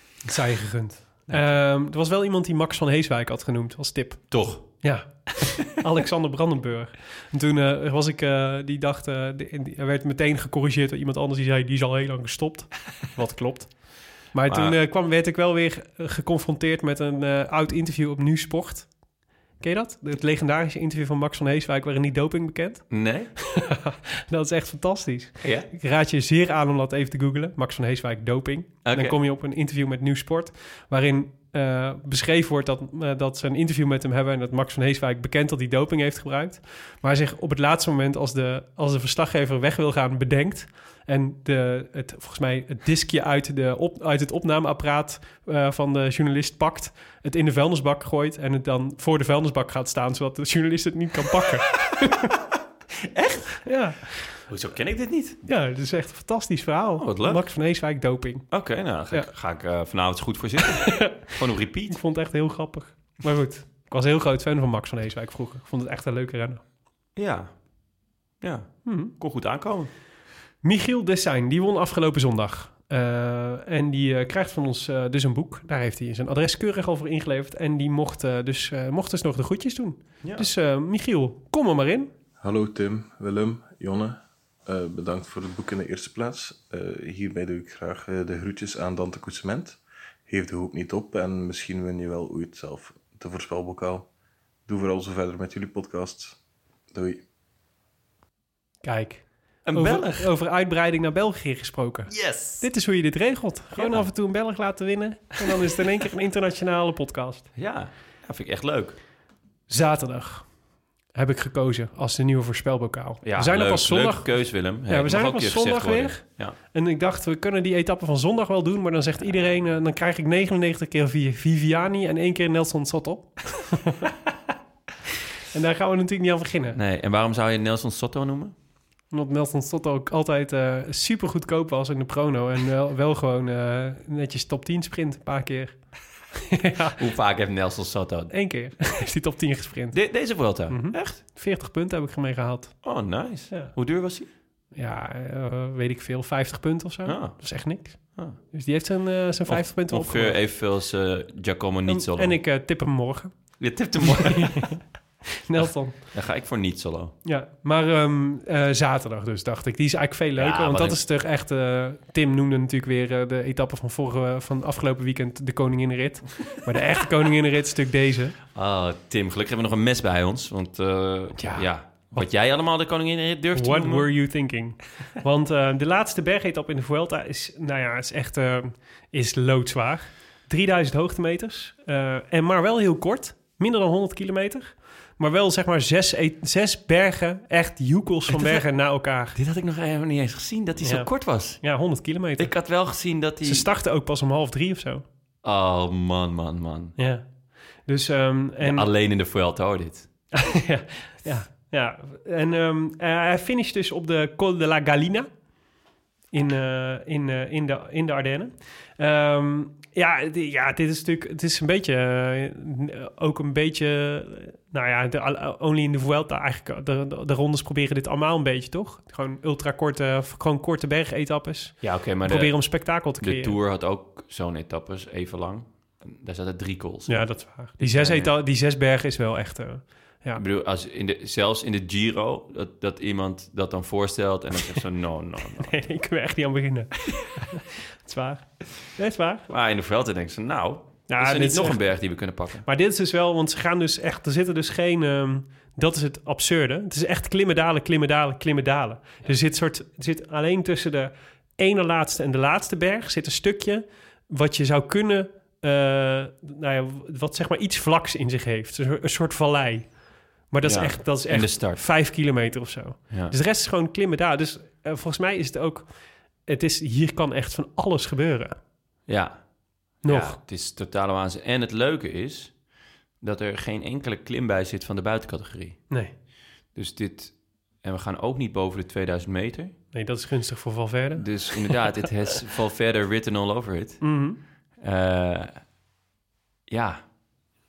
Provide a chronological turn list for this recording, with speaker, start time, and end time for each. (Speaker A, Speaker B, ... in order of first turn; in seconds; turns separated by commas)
Speaker A: 0.2-18.9, Speaker B: 1.3-1.6, Speaker B: 4.3-4.8, Speaker B: 14.5-14.8, Speaker A: 19.6-52.3, Speaker B: 22.9-23.3, Speaker B: 25.4-25.7, Speaker B: 28.8-29.2, Speaker B: 53.0-53.6, Speaker A: 53.6-54.4, Speaker B: 54.5-55.4, Speaker A: 55.4-58.5, Speaker B: 57.0-57.4, Speaker B: 58.5-62.0, Speaker A: 60.6-61.3, Speaker A: 61.9-66.6, Speaker B: 67.2-67.5, Speaker B: 68.4-69.9, Speaker A: 68.8-69.1, Speaker A: 70.6-82.1, Speaker B: 80.2-80.5, Speaker C: 82.4-94.1, Speaker C: 94.7-96.4, Speaker C: 96.9-97.2, Speaker A: 98.8-107.5, Speaker B: 99.6-100.3, Speaker B: 102.1-102.7, Speaker B: 103.7-104.1, Speaker B: 107.5-109.0, Speaker A: 109.7-110.5, Speaker A: 111.1-124.1, Speaker B: 113.2-116.5, Speaker A: 125.5-126.8, Speaker B: 126.7-128.5, Speaker A: 129.1-137.0, Speaker B: 137.0-138.3, Speaker A: 138.3-142.8, Speaker B: 139.9-141.2, Speaker B: 142.8-144.3, Speaker A: 143.5-143.7, Speaker A: 144.7-150.4, Speaker B: 147.1-148.4, Speaker B: 149.5-152.4, Speaker A: 151.9-153.4, Speaker B: 153.6-154.8, Speaker A: 154.0-154.8, Speaker A: 155.4-156.0, Speaker B: 155.6-157.2, Speaker A: 157.2-168.3, Speaker B: 160.3-161.0, Speaker B: 168.5-174.1, Speaker A: 171.3-172.3, Speaker A: 173.5-189.3, Speaker B: 188.3-188.6, Speaker B: 189.3-191.8, Speaker A: 190.8-192.5, Speaker B: 192.4-193.7, Speaker A: 193.4-195.0, Speaker B: 195.4-196.9, Speaker A: 197.0-197.3, Speaker A: 197.8-198.9, Speaker B: 198.6-200.1, Speaker A: 200.3-205.3, Speaker A: 206.3-223.6, Speaker B: 221.8-228.3, Speaker A: 227.1-230.4, Speaker B: 230.3-235.8, Speaker A: 235.6-239.5, Speaker B: 239.5-242.6, Speaker A: 241.1-241.8, Speaker A: 242.6-268.6, Speaker B: 260.6-261.8, Speaker B: 263.1-263.4, Speaker B: 269.1-272.6, Speaker A: 270.0-270.4, Speaker B: 273.2-275.9, Speaker B: 276.7-279.8, Speaker A: 279.9-282.1, Speaker B: 281.1-284.1, Speaker A: 284.0-284.4, Speaker B: 284.8-285.6, Speaker B: 286.7-287.1